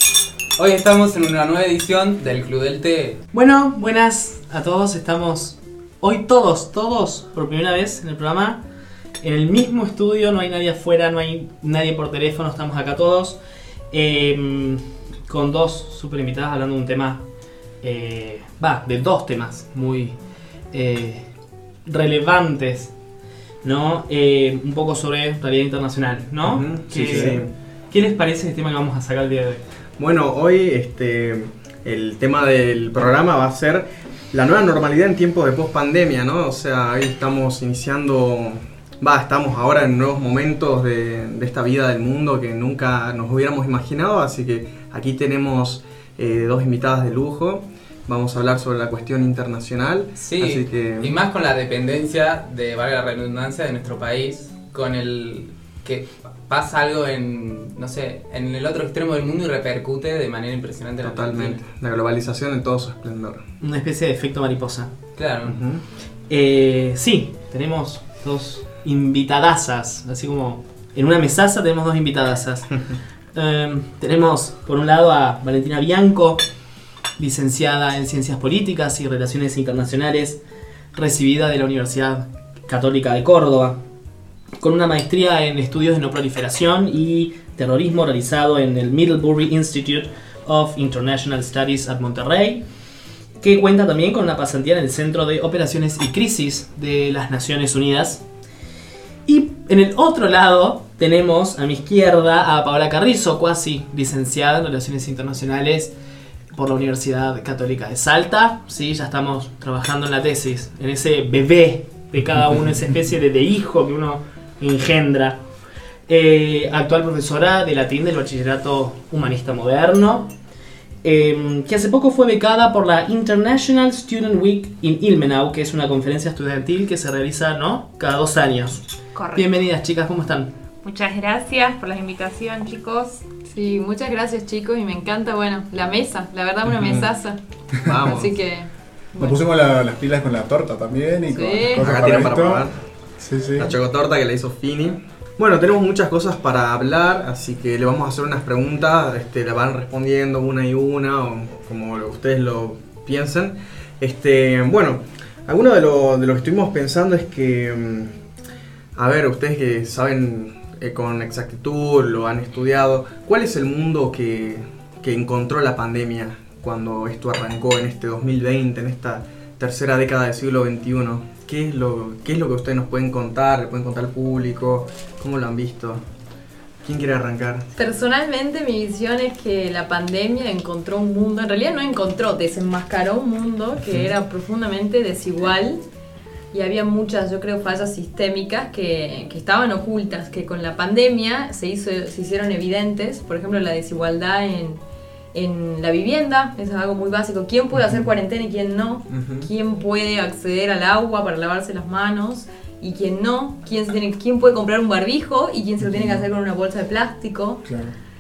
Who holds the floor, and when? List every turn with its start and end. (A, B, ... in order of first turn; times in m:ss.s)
0:00.6-0:03.2 A
0:03.3-0:08.6 B
0:09.2-0:13.4 B
0:13.9-0:17.2 B
0:17.8-0:20.2 B
0:20.7-0:21.3 B
0:21.9-0:22.9 B
0:23.6-0:29.6 B
0:26.4-0:27.5 C
0:27.0-0:27.3 D
0:30.0-0:51.2 C
0:50.2-1:01.6 A
1:01.0-1:03.4 C
1:03.6-1:05.0 B
1:05.2-1:05.7 A
1:05.4-1:05.8 C
1:06.3-1:12.8 B
1:13.3-1:16.4 B
1:17.2-1:20.4 B
1:20.9-1:23.8 B
1:24.6-1:32.7 B
1:33.4-1:38.2 B
1:39.3-1:45.9 B
1:46.5-1:55.4 B
1:56.1-2:00.3 B
2:01.0-2:08.8 B
2:09.2-2:09.5 E
2:09.4-2:10.5 B
2:10.8-2:13.2 E
2:13.5-2:17.4 F
2:16.7-2:17.1 C
2:17.8-2:18.4 C
2:18.0-2:19.4 F
2:19.2-2:22.7 D
2:21.3-2:21.8 F
2:21.8-2:22.8 C
2:23.2-2:23.7 D
2:23.6-2:38.1 C
2:39.0-2:56.0 C
2:56.8-2:57.7 C
2:57.8-3:05.8 F
3:06.5-3:14.8 F
3:15.3-3:27.6 F
3:19.1-3:19.5 C
3:25.8-3:26.3 D
3:27.6-3:28.0 D